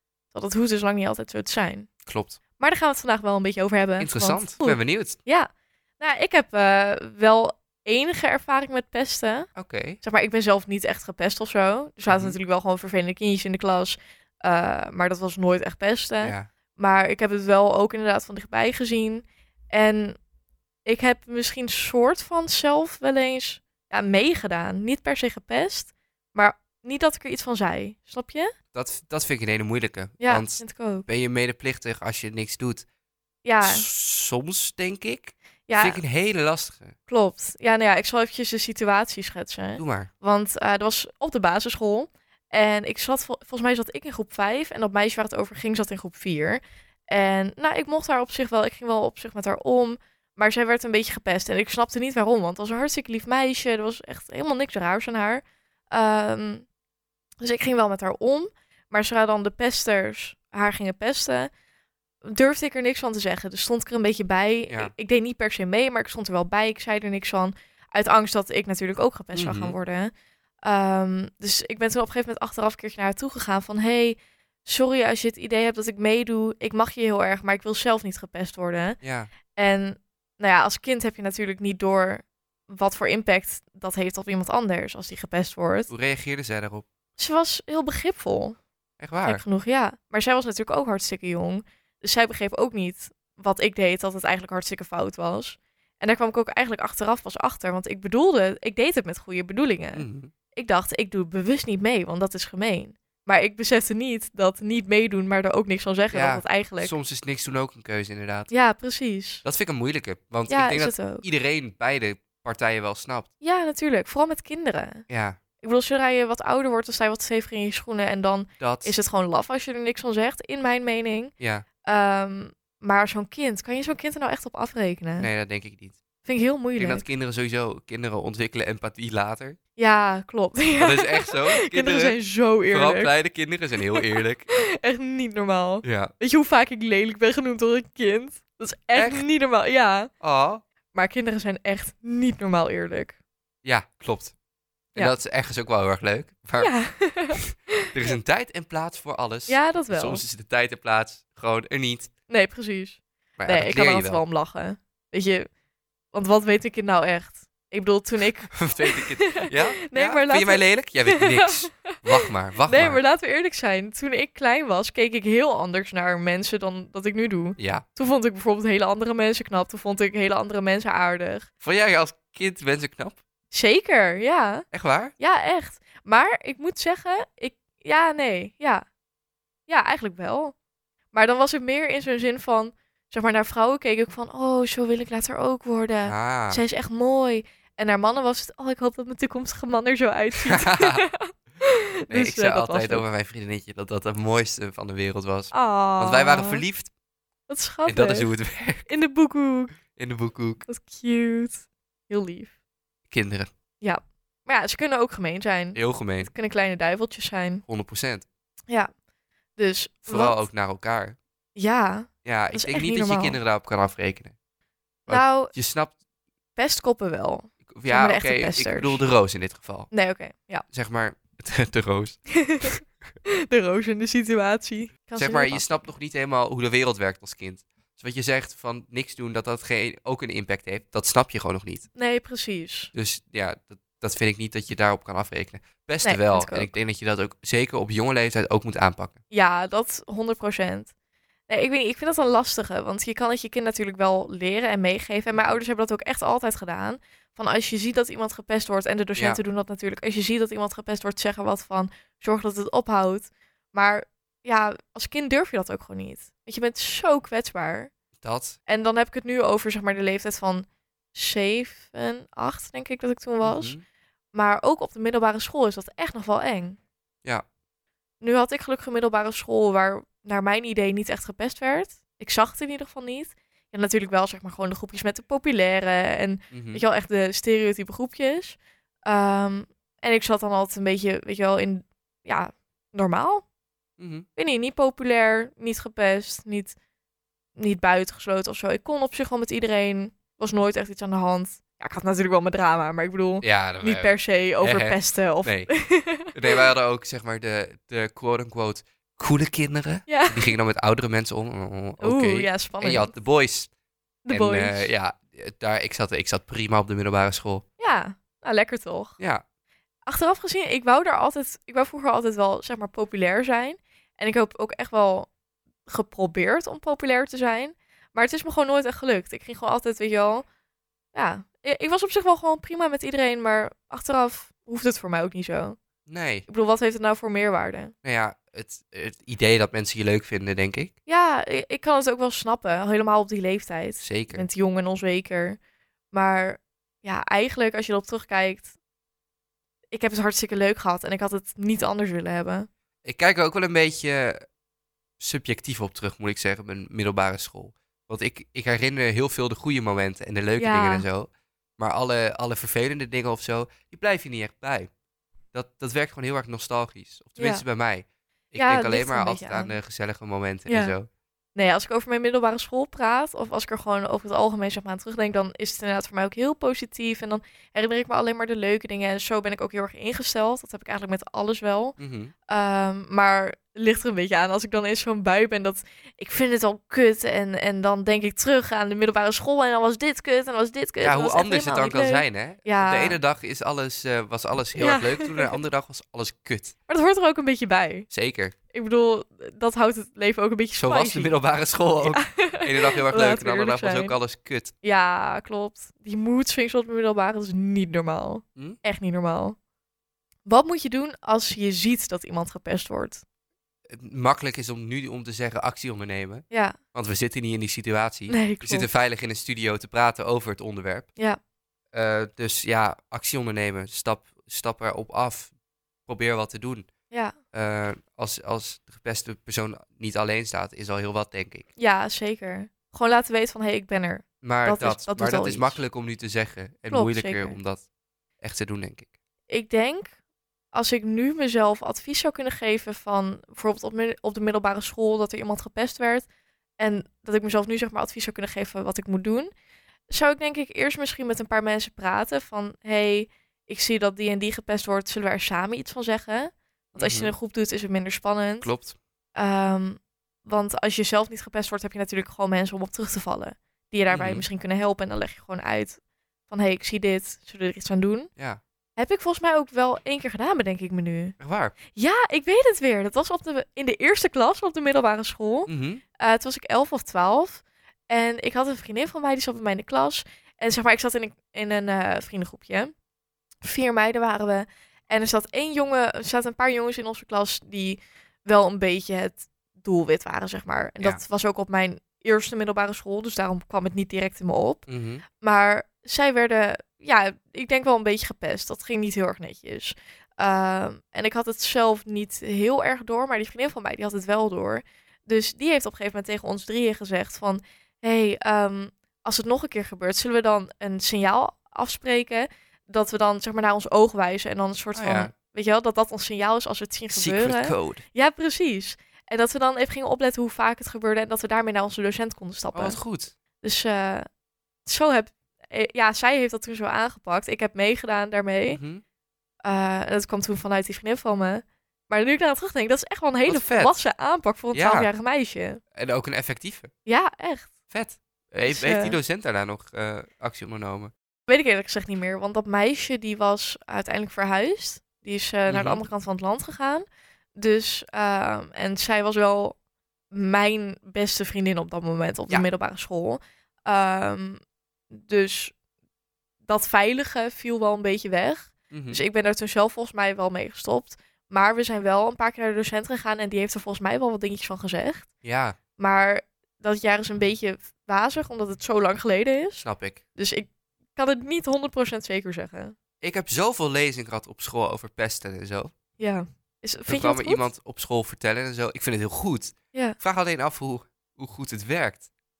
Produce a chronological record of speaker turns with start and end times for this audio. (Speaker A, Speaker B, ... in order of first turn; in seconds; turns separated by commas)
Speaker A: 0.3-1.9, Speaker B: 2.0-2.4, Speaker A: 2.6-5.5, Speaker B: 4.0-5.2, Speaker A: 6.0-9.5, Speaker B: 9.6-10.0, Speaker A: 10.0-20.2, Speaker B: 12.1-12.4, Speaker B: 16.2-16.5, Speaker A: 20.8-28.5, Speaker B: 28.7-32.8, Speaker A: 30.2-31.1, Speaker A: 33.4-33.9, Speaker B: 33.6-36.9, Speaker A: 35.7-36.0, Speaker A: 37.1-56.6, Speaker B: 39.8-40.1, Speaker A: 57.4-61.5, Speaker A: 62.2-70.1, Speaker B: 69.3-69.8, Speaker A: 70.6-79.0, Speaker B: 79.0-79.3, Speaker A: 79.5-85.9, Speaker B: 85.9-86.8, Speaker A: 87.2-88.6, Speaker B: 89.0-89.4, Speaker A: 89.2-106.9, Speaker B: 99.9-100.3, Speaker B: 106.1-108.5, Speaker A: 108.5-109.4, Speaker B: 109.4-113.3, Speaker A: 110.5-111.2, Speaker A: 113.4-115.0, Speaker B: 115.1-115.4, Speaker A: 115.6-121.3, Speaker B: 118.6-118.9, Speaker B: 121.4-121.7, Speaker A: 121.8-125.3, Speaker B: 125.2-126.0, Speaker A: 126.2-127.0, Speaker B: 126.8-129.6, Speaker A: 129.8-133.1, Speaker B: 130.8-132.2, Speaker B: 132.7-134.5, Speaker A: 133.9-140.1, Speaker B: 135.8-136.1, Speaker B: 138.9-139.2, Speaker B: 140.2-140.6, Speaker A: 140.9-143.1, Speaker B: 143.6-144.3, Speaker B: 144.9-146.7, Speaker A: 146.6-147.9, Speaker B: 147.3-152.1, Speaker A: 149.5-150.2, Speaker A: 152.3-155.5, Speaker B: 153.4-154.2, Speaker A: 156.1-171.5, Speaker B: 158.5-163.0, Speaker B: 167.6-167.8, Speaker B: 171.6-173.2, Speaker A: 173.5-174.7, Speaker B: 174.7-175.1, Speaker A: 175.2-178.8, Speaker A: 179.7-180.5, Speaker A: 181.1-193.0, Speaker B: 186.0-186.6, Speaker B: 190.4-191.0, Speaker B: 192.1-196.9, Speaker A: 195.5-196.6, Speaker A: 197.5-198.3, Speaker B: 197.8-198.9, Speaker A: 198.9-199.8, Speaker B: 199.9-200.7, Speaker A: 200.7-202.5, Speaker B: 203.1-203.5, Speaker A: 203.8-207.6, Speaker B: 205.7-206.3, Speaker B: 207.7-208.2, Speaker A: 209.6-210.4, Speaker B: 210.1-211.2, Speaker A: 211.6-213.4, Speaker B: 212.2-214.3, Speaker B: 215.1-215.9, Speaker A: 215.1-215.5, Speaker A: 216.6-219.0, Speaker B: 217.7-219.9, Speaker A: 219.9-220.6, Speaker B: 220.7-222.8, Speaker A: 222.3-225.9, Speaker B: 225.2-231.9, Speaker A: 231.9-232.9, Speaker B: 232.9-239.2, Speaker A: 236.0-236.7, Speaker A: 239.3-240.9, Speaker A: 241.5-257.9, Speaker B: 245.3-245.6, Speaker B: 249.2-249.4, Speaker B: 258.2-258.6, Speaker A: 258.7-263.7, Speaker B: 263.4-263.8, Speaker A: 264.3-266.8, Speaker A: 268.2-283.4, Speaker B: 276.5-276.8, Speaker B: 284.0-284.2, Speaker A: 284.4-286.7, Speaker A: 287.6-296.7, Speaker B: 293.4-295.7, Speaker B: 296.3-303.7, Speaker A: 300.1-300.5, Speaker A: 302.0-303.1, Speaker A: 304.2-304.9, Speaker B: 304.3-307.6, Speaker A: 307.8-309.1, Speaker A: 310.1-315.3, Speaker A: 315.9-320.4, Speaker A: 321.1-325.8, Speaker B: 326.1-326.4, Speaker A: 326.5-327.9, Speaker B: 328.0-330.9, Speaker A: 331.1-335.6, Speaker B: 334.0-334.5, Speaker A: 336.1-338.7, Speaker A: 339.9-342.7, Speaker B: 343.0-344.4, Speaker B: 345.2-354.9, Speaker A: 350.6-351.1, Speaker B: 355.5-361.1, Speaker A: 357.4-357.6, Speaker A: 358.6-359.7, Speaker A: 360.7-360.9, Speaker A: 361.5-383.2, Speaker B: 372.0-372.3, Speaker B: 381.0-386.7, Speaker A: 384.8-385.5, Speaker A: 386.9-388.1, Speaker B: 388.1-388.6, Speaker A: 388.7-391.3, Speaker B: 390.8-394.7, Speaker A: 392.0-394.2, Speaker A: 394.8-399.6, Speaker A: 400.4-403.2, Speaker B: 403.9-411.1, Speaker A: 406.5-406.8, Speaker A: 408.3-408.9, Speaker B: 411.9-415.5, Speaker B: 416.1-416.9, Speaker A: 417.1-417.4, Speaker B: 417.5-421.7, Speaker A: 421.8-425.8, Speaker B: 424.4-427.8, Speaker A: 426.9-427.6, Speaker B: 428.4-429.1, Speaker A: 429.5-430.1, Speaker A: 430.7-436.2, Speaker A: 436.8-439.5, Speaker A: 440.1-448.7, Speaker B: 447.0-447.3, Speaker B: 448.6-448.9, Speaker A: 449.4-458.3, Speaker B: 454.1-454.4, Speaker A: 459.0-461.4, Speaker B: 461.4-461.8, Speaker A: 461.9-472.9, Speaker B: 465.7-466.0, Speaker A: 473.6-484.9, Speaker B: 484.9-485.2, Speaker A: 485.4-513.0, Speaker B: 504.9-505.3, Speaker B: 507.1-508.0, Speaker B: 512.7-513.3, Speaker A: 513.6-514.3, Speaker A: 514.9-518.8, Speaker B: 518.7-519.0, Speaker A: 519.6-525.8, Speaker B: 523.5-524.0, Speaker B: 524.7-525.1, Speaker B: 525.9-526.9, Speaker A: 527.0-527.7, Speaker B: 527.9-531.1, Speaker A: 528.7-529.2, Speaker A: 531.5-539.8, Speaker B: 535.7-536.0, Speaker A: 540.3-545.7, Speaker A: 546.6-555.3, Speaker B: 548.9-549.2, Speaker B: 555.4-555.8, Speaker A: 556.0-563.0, Speaker B: 559.8-560.2, Speaker B: 563.2-565.9, Speaker A: 566.2-567.7, Speaker B: 567.0-572.2